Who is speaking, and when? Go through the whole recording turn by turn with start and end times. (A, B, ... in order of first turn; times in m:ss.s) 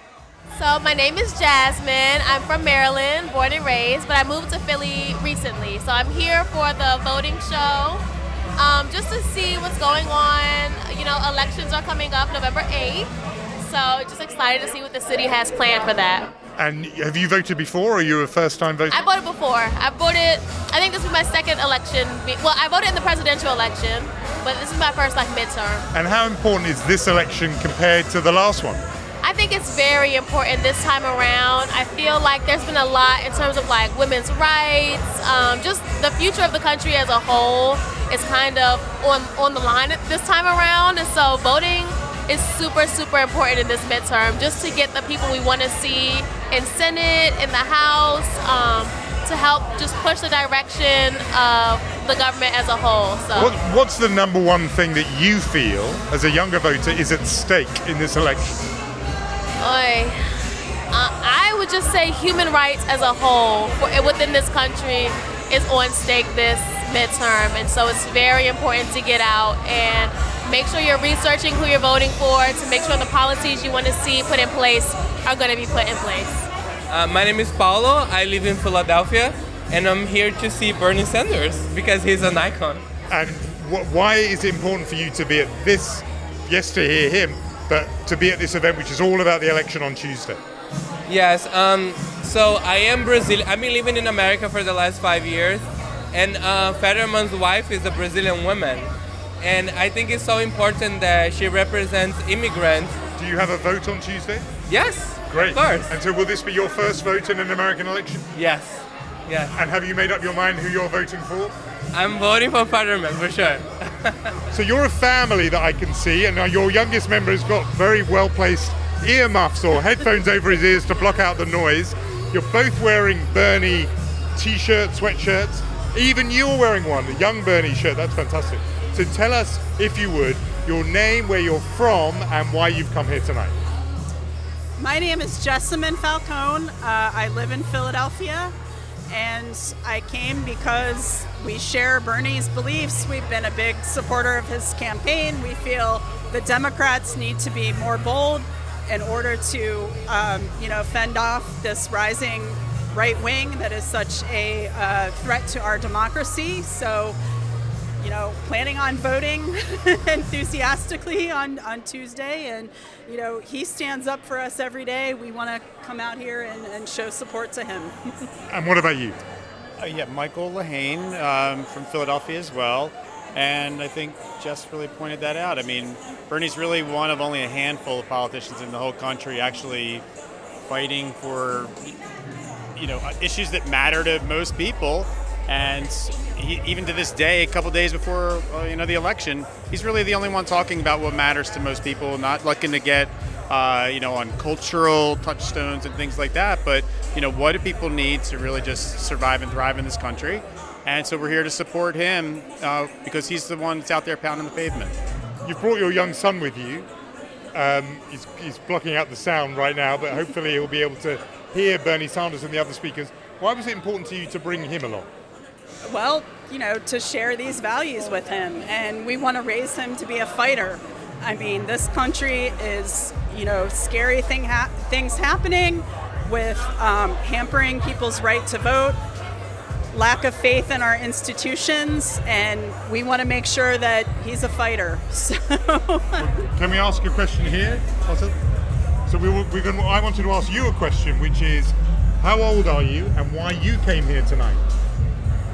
0:00.6-0:08.0 A
0:08.6-0:13.1 A
0:13.6-0:16.3 A
0:16.6-0:19.0 B
0:18.9-0:25.9 A
0:25.9-0:28.8 B
0:29.2-0:53.5 A
0:53.4-0:58.6 B
0:59.6-1:00.4 A
1:00.9-1:16.4 A
1:16.9-1:22.8 C
1:23.1-1:30.4 B
1:31.1-1:43.0 C
1:43.2-1:44.5 B
1:44.7-1:45.9 C
1:45.3-1:48.3 B
1:48.4-1:49.5 C
1:49.5-1:51.5 B
1:51.9-1:54.3 C
1:54.5-2:13.6 B
2:14.8-2:18.5 D
2:19.1-2:37.2 D
2:38.0-2:48.2 D
2:48.5-2:49.2 B
2:49.8-3:00.1 E
3:00.7-3:02.0 E
3:02.8-3:25.0 E
3:25.4-3:26.9 B
3:27.5-3:35.1 B
3:35.9-3:49.0 D
3:49.9-3:56.2 D
3:56.2-3:58.4 B
3:59.1-4:04.7 B